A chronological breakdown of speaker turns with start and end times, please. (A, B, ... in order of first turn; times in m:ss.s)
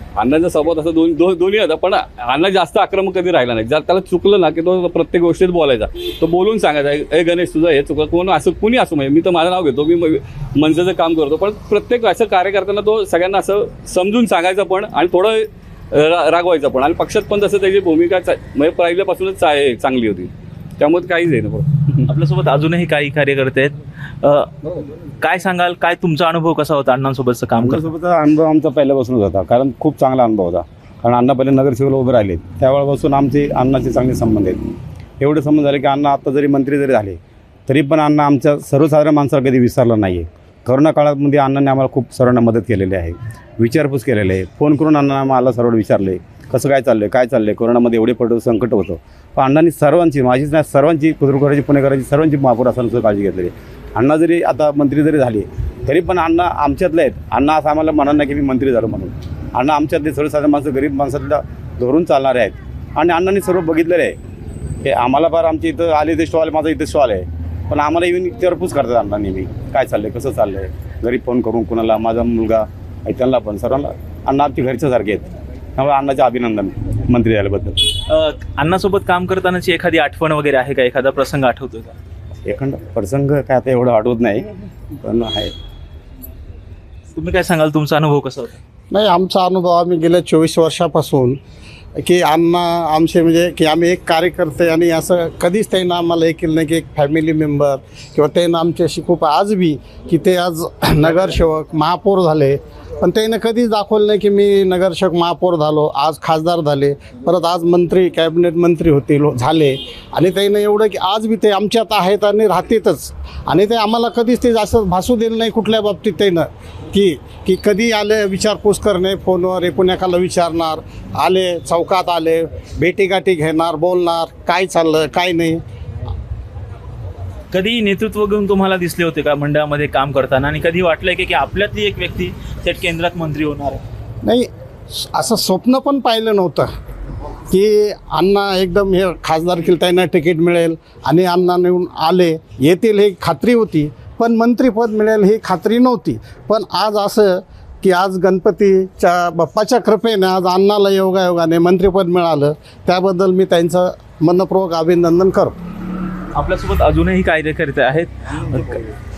0:00.2-0:22.0 A
0:22.1-0:24.5 B
0:25.2-0:27.9 B
0:27.6-0:34.6 C
0:35.2-1:04.2 C
1:04.8-1:15.3 C
1:15.8-1:17.8 C
1:18.1-1:22.0 B
1:22.4-1:24.5 C
1:25.0-1:25.5 C
1:27.1-1:28.5 B
1:28.9-1:31.4 D
1:32.0-2:05.6 D
2:07.5-2:13.8 B
2:14.2-2:16.7 D
2:17.5-2:35.5 D
2:36.4-2:38.8 B